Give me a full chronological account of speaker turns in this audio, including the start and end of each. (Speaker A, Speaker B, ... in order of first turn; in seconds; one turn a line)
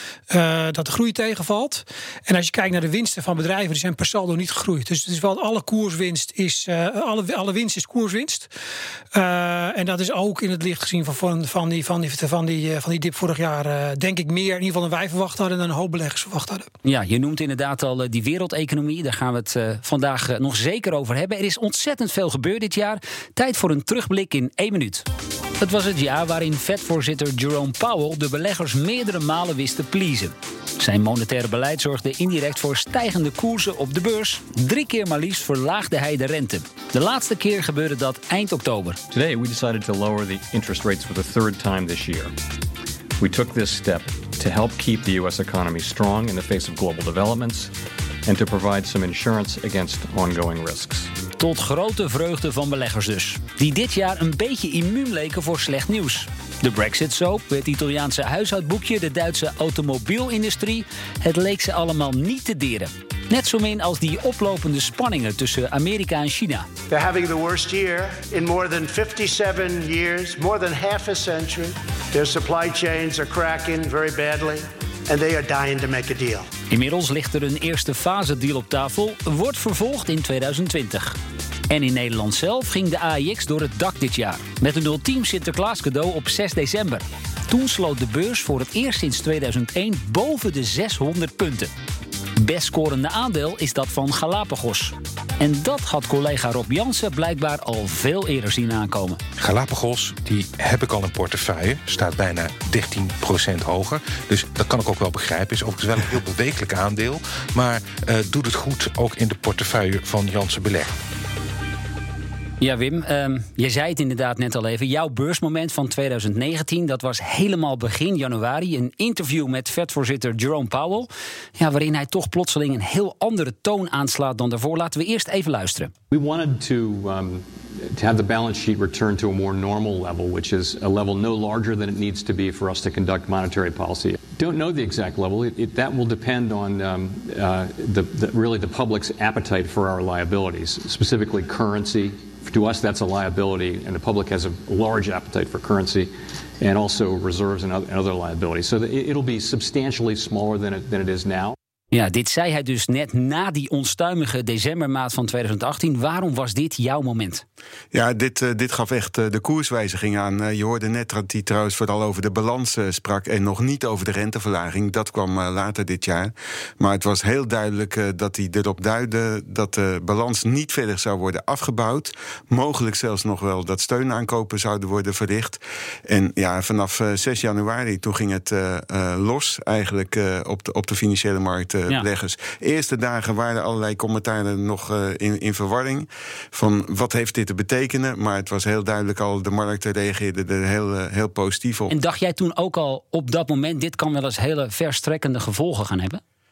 Speaker A: 0.3-8.5
Speaker A: 9.1-16.7
Speaker B: 16.9-25.1
Speaker B: 25.6-39.0
Speaker C: 39.1-42.3
Speaker C: 43.2-47.7
Speaker C: 48.3-51.1
Speaker B: 51.4-66.7
Speaker D: 66.9-76.5
Speaker B: 76.7-81.2
Speaker B: 81.7-91.7
Speaker B: 92.4-99.2
Speaker E: 99.4-110.9
Speaker B: 112.6-125.9
Speaker C: 126.1-151.6
Speaker B: 151.9-157.4
Speaker F: 157.9-191.9
Speaker B: 191.9-196.2